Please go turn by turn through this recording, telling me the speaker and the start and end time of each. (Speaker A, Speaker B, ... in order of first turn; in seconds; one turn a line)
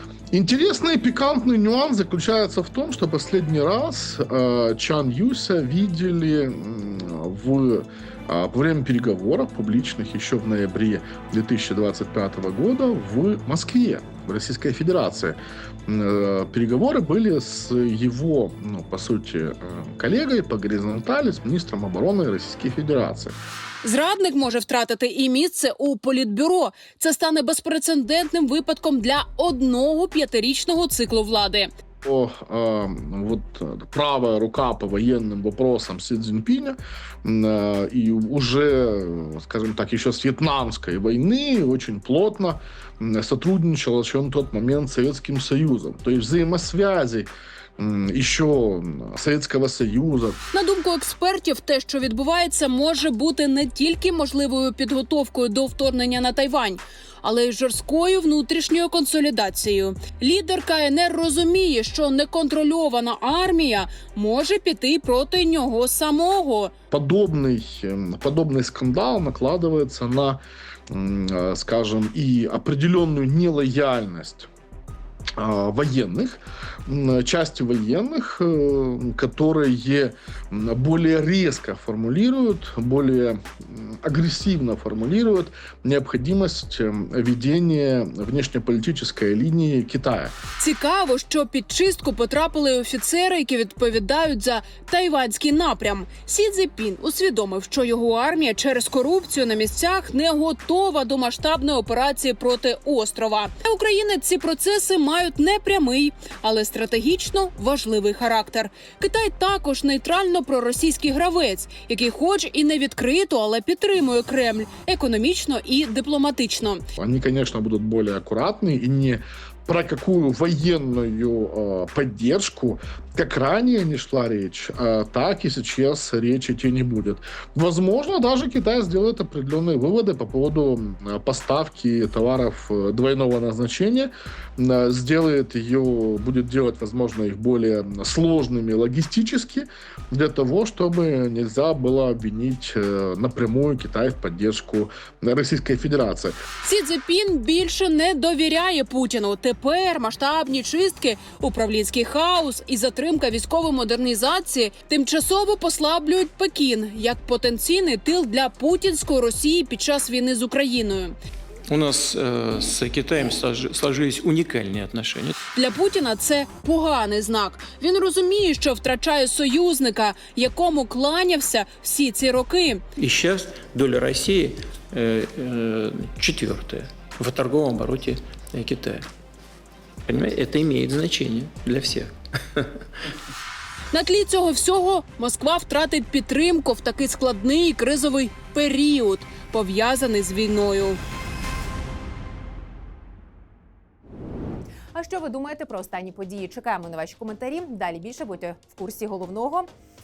Speaker A: 0.3-23.4
Speaker B: 23.8-31.7
Speaker A: 32.0-50.4
Speaker B: 50.5-66.7
Speaker A: 66.9-74.5
Speaker A: 75.4-90.3
Speaker B: 90.6-116.8
Speaker A: 117.0-146.4
Speaker B: 146.6-161.2
Speaker C: 161.7-165.3
Speaker B: 165.5-172.8
Speaker C: 173.0-179.1
Speaker C: 180.1-182.7
Speaker B: 183.9-191.0
Speaker D: 194.9-199.7